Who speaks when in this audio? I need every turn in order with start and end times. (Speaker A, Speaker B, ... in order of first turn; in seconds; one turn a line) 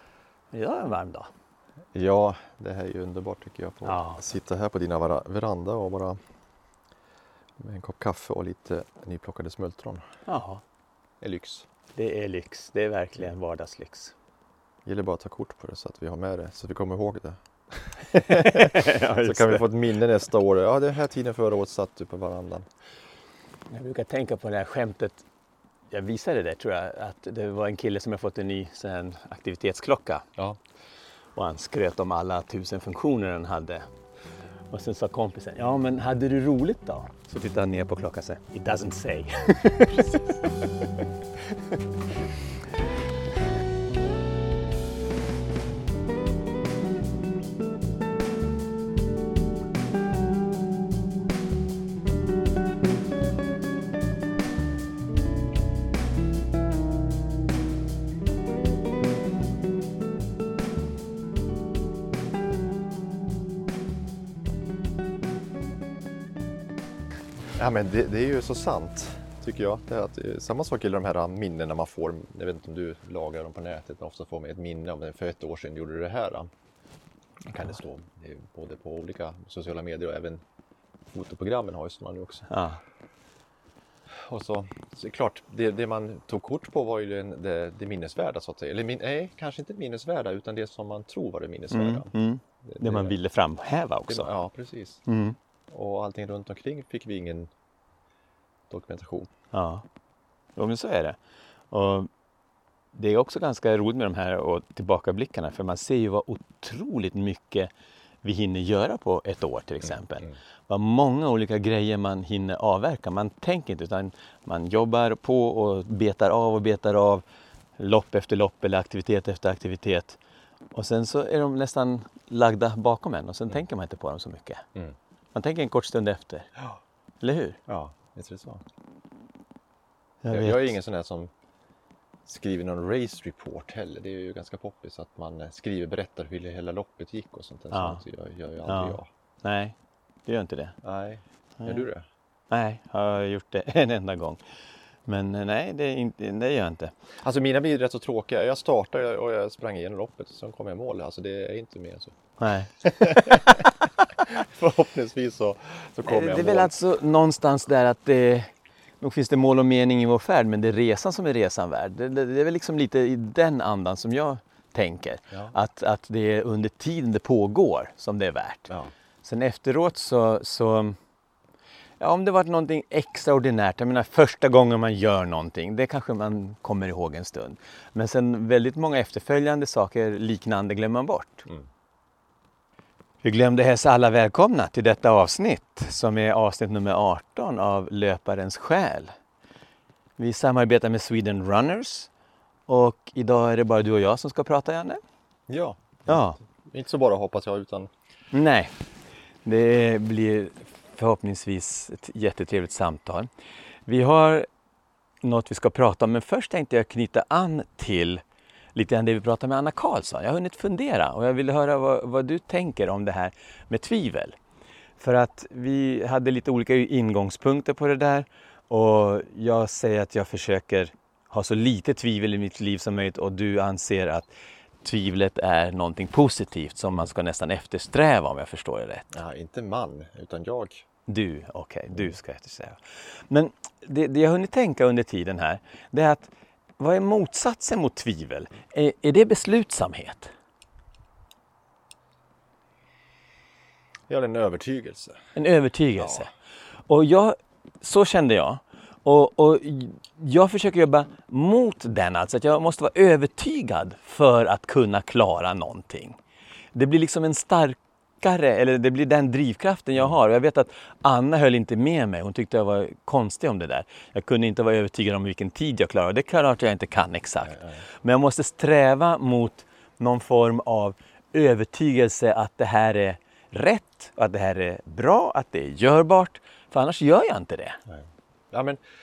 Speaker A: 0.5-1.3
Speaker B: 1.9-6.2
Speaker A: 3.9-4.2
Speaker B: 7.6-10.0
Speaker A: 10.3-10.6
Speaker B: 11.2-11.7
Speaker A: 11.9-14.2
Speaker B: 14.9-22.7
Speaker A: 18.1-19.6
Speaker A: 23.7-25.2
Speaker A: 25.9-30.3
Speaker A: 31.4-33.9
Speaker A: 34.7-41.8
Speaker B: 67.5-76.5
Speaker B: 77.5-80.4
Speaker B: 81.1-82.5
Speaker A: 82.5-82.8
Speaker B: 84.1-92.1
Speaker A: 91.7-94.3
Speaker B: 92.6-93.2
Speaker B: 94.1-95.0
Speaker A: 95.1-95.4
Speaker B: 95.7-97.5
Speaker B: 98.7-99.3
Speaker A: 99.5-99.8
Speaker A: 100.6-101.2
Speaker A: 101.7-102.1
Speaker A: 102.9-107.7
Speaker A: 108.2-117.2
Speaker A: 117.8-120.2
Speaker A: 120.7-124.6
Speaker A: 125.3-126.5
Speaker A: 127.2-127.6
Speaker B: 127.7-128.6
Speaker A: 130.2-130.8
Speaker B: 130.3-131.3
Speaker B: 132.3-139.1
Speaker A: 137.7-138.0
Speaker A: 138.7-140.8
Speaker B: 140.8-142.1
Speaker A: 141.6-141.9
Speaker A: 142.5-146.9
Speaker B: 147.2-152.1
Speaker A: 152.4-153.7
Speaker B: 152.8-156.8
Speaker A: 156.1-168.7
Speaker A: 169.2-171.0
Speaker A: 172.0-181.5
Speaker A: 183.2-189.1
Speaker A: 190.2-192.1
Speaker A: 192.7-195.0
Speaker B: 195.5-197.9
Speaker A: 196.1-196.4
Speaker A: 198.3-198.7
Speaker A: 199.4-203.3
Speaker A: 203.9-204.5
Speaker A: 205.2-208.2
Speaker A: 208.8-214.4
Speaker A: 215.0-224.3
Speaker A: 224.8-229.2
Speaker B: 229.1-230.8
Speaker A: 231.1-240.3
Speaker B: 244.1-245.2
Speaker A: 245.4-246.3
Speaker B: 246.0-246.3
Speaker A: 246.9-256.2
Speaker A: 256.7-277.8
Speaker B: 267.5-267.8
Speaker B: 277.9-278.8